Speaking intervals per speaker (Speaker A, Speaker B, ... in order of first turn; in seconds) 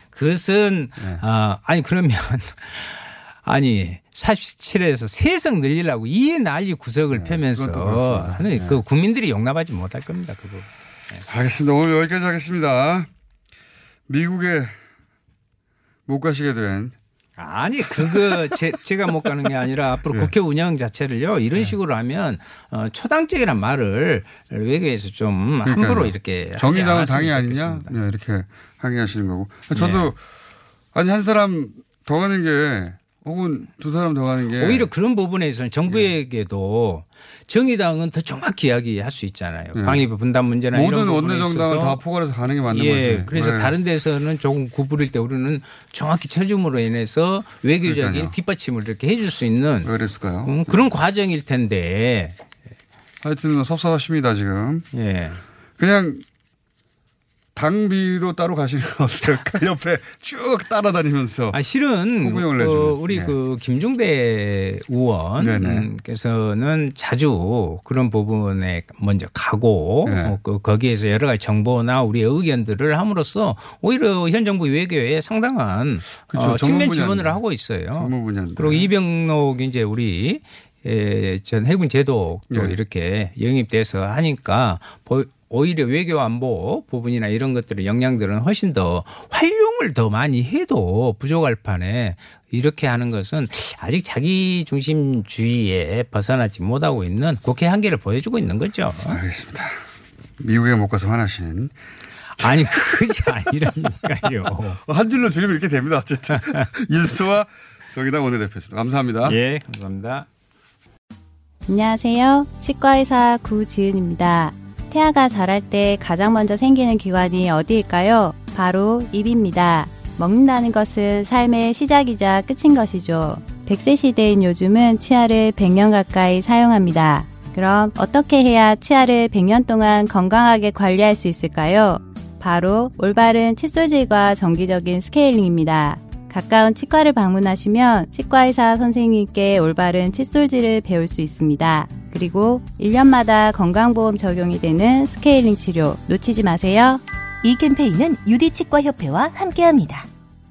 Speaker A: 0.1-11.2, 17.4-28.0, 29.7-30.1, 34.6-42.0, 42.7-49.9, 50.4-52.4, 54.9-55.4, 61.5-99.2, 102.4-104.8, 109.2-110.3
Speaker B: 1.0-1.2, 7.1-8.8, 11.2-13.1, 14.1-14.8, 16.1-16.9, 17.9-18.5, 25.6-30.2, 30.9-34.9, 39.7-40.1, 40.7-43.7, 47.9-48.3, 49.8-50.8, 53.2-54.9, 55.8-56.2, 57.5-61.6, 62.2-63.4, 65.4-65.9, 70.0-70.4, 76.3-77.4, 77.9-78.9, 82.5-82.8, 99.1-99.8, 100.4-101.7, 102.4-103.3, 104.8-109.4
Speaker C: 111.7-147.0
Speaker D: 147.4-150.0